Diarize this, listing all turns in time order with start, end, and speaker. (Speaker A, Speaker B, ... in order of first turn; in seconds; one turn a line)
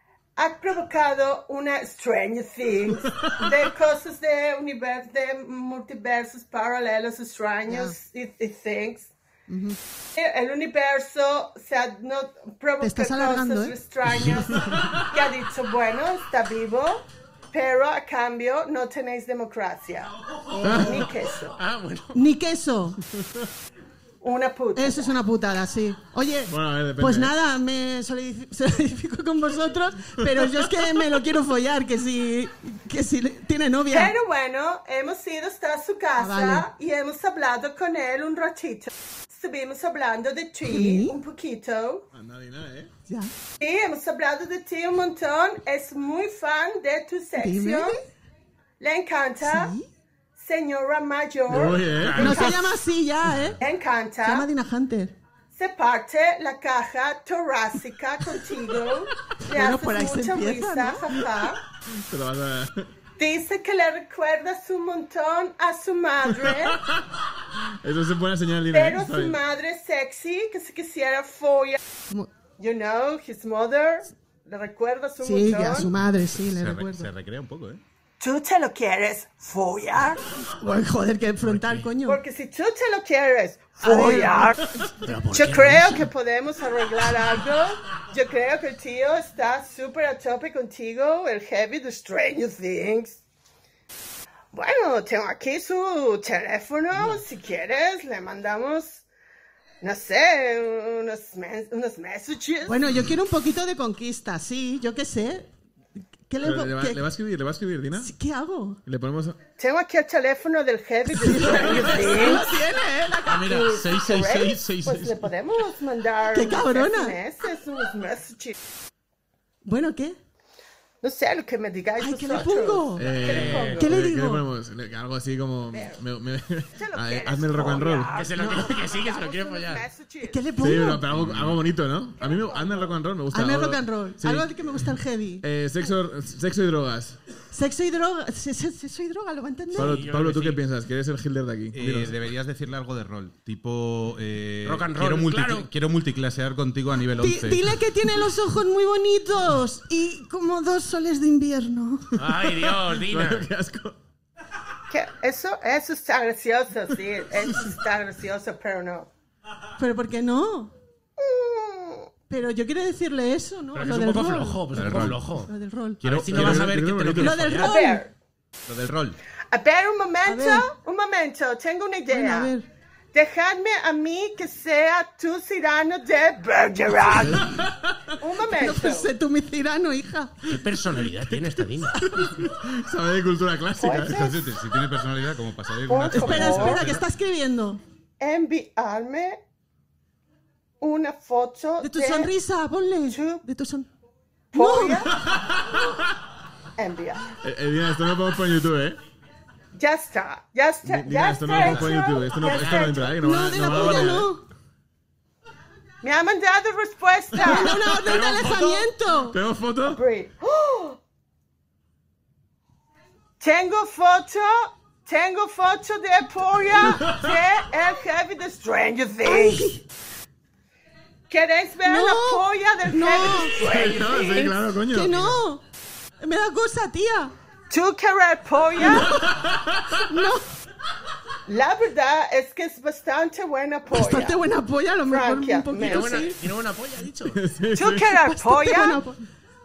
Speaker A: 0.4-9.1
Speaker B: 7.7-8.0
Speaker B: 9.5-9.8
Speaker A: 10.2-20.1
Speaker B: 12.8-13.8
Speaker C: 20.6-20.9
Speaker A: 20.6-21.5
Speaker D: 21.6-22.2
Speaker B: 22.1-23.0
Speaker A: 24.2-25.1
Speaker B: 24.7-34.1
Speaker C: 26.5-27.3
Speaker A: 33.9-42.0
Speaker B: 36.2-36.7
Speaker B: 40.7-41.2
Speaker C: 42.1-42.9
Speaker B: 43.1-43.3
Speaker A: 43.6-48.0
Speaker B: 47.4-48.0
Speaker A: 48.8-49.7
Speaker B: 49.4-49.9
Speaker A: 50.4-52.5
Speaker C: 51.5-52.4
Speaker D: 52.0-52.6
Speaker B: 52.2-53.6
Speaker A: 53.6-54.5
Speaker B: 54.2-55.1
Speaker A: 55.5-61.6
Speaker B: 59.5-61.1
Speaker C: 61.9-62.9
Speaker A: 63.2-66.8
Speaker C: 66.4-69.4
Speaker A: 68.7-71.8
Speaker A: 72.6-75.9
Speaker B: 75.2-77.1
Speaker E: 76.3-77.8
Speaker A: 78.2-80.2
Speaker B: 80.6-82.2
Speaker D: 81.4-81.9
Speaker A: 82.0-84.6
Speaker B: 83.8-84.9
Speaker D: 85.0-86.0
Speaker A: 85.3-93.2
Speaker A: 94.5-99.0
Speaker A: 99.8-102.9
Speaker B: 102.7-105.5
Speaker B: 106.2-107.0
Speaker C: 106.4-108.1
Speaker B: 108.0-108.8
Speaker C: 108.8-109.4
Speaker A: 109.6-112.5
Speaker B: 111.1-113.7
Speaker E: 113.2-115.3
Speaker A: 113.4-118.6
Speaker B: 116.3-117.2
Speaker B: 119.6-120.2
Speaker A: 121.0-123.9
Speaker B: 122.0-123.1
Speaker C: 123.0-128.1
Speaker D: 123.2-123.9
Speaker B: 123.8-124.5
Speaker A: 125.7-126.0
Speaker A: 126.7-130.5
Speaker D: 128.1-129.8
Speaker B: 128.4-128.7
Speaker B: 130.2-131.1
Speaker C: 130.6-134.5
Speaker E: 131.1-131.6
Speaker A: 132.3-132.7
Speaker B: 133.3-135.4
Speaker C: 135.4-137.2
Speaker B: 137.5-140.0
Speaker D: 139.7-140.6
Speaker C: 139.7-142.1
Speaker E: 141.7-147.8
Speaker D: 144.6-145.7
Speaker B: 147.2-152.1
Speaker D: 152.2-153.5
Speaker C: 152.2-154.0
Speaker A: 154.9-159.1
Speaker B: 159.8-160.7
Speaker A: 161.2-162.1
Speaker B: 162.3-164.7
Speaker D: 163.7-165.5
Speaker E: 164.7-165.2
Speaker B: 165.4-166.0
Speaker D: 166.0-167.7
Speaker E: 166.0-167.0
Speaker C: 166.3-167.5
Speaker B: 167.2-168.0
Speaker A: 167.6-168.1
Speaker E: 168.7-169.2
Speaker A: 169.5-172.5
Speaker B: 170.2-170.7
Speaker B: 172.1-172.7
Speaker A: 173.1-177.5
Speaker C: 177.3-177.6
Speaker A: 178.2-179.1
Speaker B: 178.4-180.4
Speaker D: 180.5-182.0
Speaker B: 182.0-182.4
Speaker C: 182.2-184.3
Speaker A: 183.8-184.3
Speaker E: 184.0-187.0
Speaker A: 185.9-186.8
Speaker B: 186.1-187.8
Speaker A: 188.2-189.4
Speaker A: 190.8-192.3
Speaker B: 191.8-193.9
Speaker A: 193.1-193.4
Speaker A: 194.5-195.1
Speaker B: 194.5-195.0
Speaker A: 196.8-197.2
Speaker C: 197.4-199.0
Speaker A: 199.8-203.1
Speaker C: 200.8-204.3
Speaker B: 203.1-204.4
Speaker A: 206.0-207.8
Speaker B: 207.4-209.4
Speaker D: 208.0-208.8
Speaker C: 209.3-210.0
Speaker A: 209.9-211.0
Speaker A: 213.4-219.7
Speaker C: 217.0-217.3
Speaker B: 219.2-219.8
Speaker A: 221.3-224.5
Speaker B: 221.8-223.6
Speaker C: 223.6-225.4
Speaker B: 224.2-225.6
Speaker B: 226.2-227.3
Speaker A: 227.7-229.1
Speaker C: 229.3-229.9
Speaker B: 229.9-230.5
Speaker A: 231.5-234.4
Speaker B: 233.9-236.3
Speaker A: 235.1-236.3
Speaker D: 235.8-237.4
Speaker C: 237.3-238.1
Speaker A: 237.7-239.0
Speaker B: 238.2-239.2